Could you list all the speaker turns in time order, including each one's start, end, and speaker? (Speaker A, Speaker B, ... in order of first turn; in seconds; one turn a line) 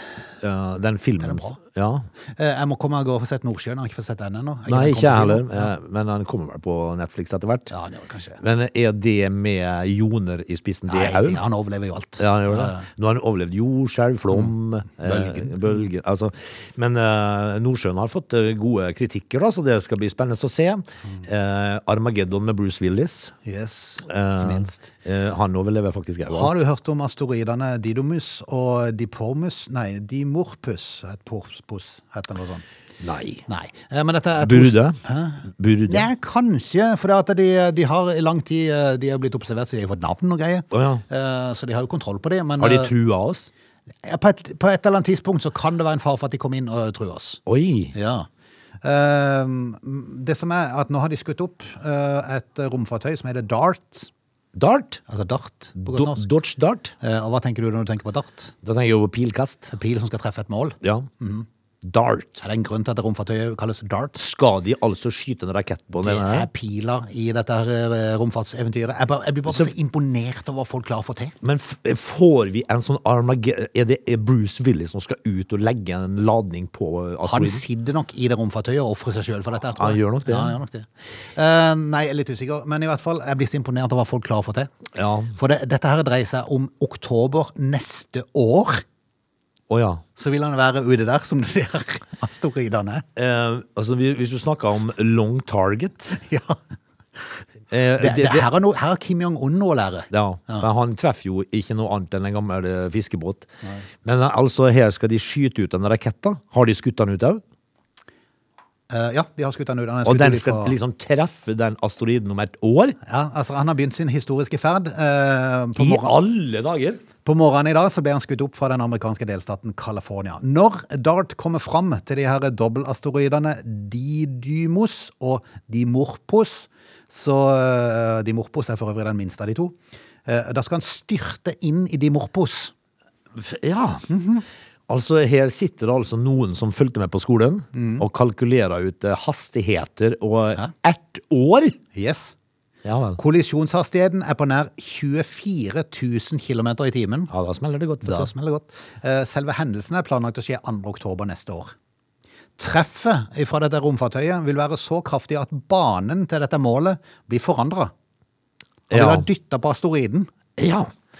Speaker A: 0.4-2.0
Speaker B: 1.2-1.6
Speaker B: 2.4-5.7
Speaker A: 4.7-7.7
Speaker B: 7.7-8.4
Speaker A: 8.4-11.4
Speaker B: 10.9-12.8
Speaker A: 12.2-23.3
Speaker B: 15.0-15.8
Speaker B: 23.4-24.8
Speaker A: 24.0-26.5
Speaker B: 26.3-32.6
Speaker A: 33.0-33.5
Speaker B: 33.5-42.9
Speaker A: 34.4-36.1
Speaker A: 40.7-41.0
Speaker A: 42.6-43.5
Speaker B: 44.0-47.4
Speaker A: 47.5-47.9
Speaker B: 47.9-48.3
Speaker B: 48.8-54.1
Speaker A: 54.5-55.0
Speaker B: 55.1-56.2
Speaker A: 55.9-56.9
Speaker B: 57.0-58.5
Speaker A: 58.6-59.7
Speaker B: 59.7-61.5
Speaker A: 60.8-61.1
Speaker A: 61.8-62.4
Speaker B: 62.4-64.2
Speaker A: 64.1-66.5
Speaker B: 66.0-71.3
Speaker A: 71.4-77.6
Speaker B: 77.2-84.7
Speaker A: 79.8-80.5
Speaker A: 84.9-85.3
Speaker B: 85.3-88.8
Speaker A: 89.7-90.0
Speaker B: 90.2-93.0
Speaker A: 93.2-96.1
Speaker B: 96.1-96.6
Speaker A: 97.7-98.4
Speaker B: 98.0-100.7
Speaker A: 100.1-103.5
Speaker A: 104.0-107.4
Speaker B: 108.9-110.7
Speaker A: 110.0-113.0
Speaker B: 113.0-116.1
Speaker A: 115.8-117.0
Speaker B: 117.2-132.7
Speaker A: 133.3-134.1
Speaker B: 134.1-134.4
Speaker A: 134.9-141.8
Speaker B: 137.7-138.0
Speaker B: 141.9-142.3
Speaker A: 142.8-143.2
Speaker B: 143.2-147.3
Speaker A: 147.3-148.3
Speaker B: 148.0-151.7
Speaker B: 152.6-157.9
Speaker A: 158.9-159.2
Speaker B: 158.9-160.3
Speaker A: 160.6-160.9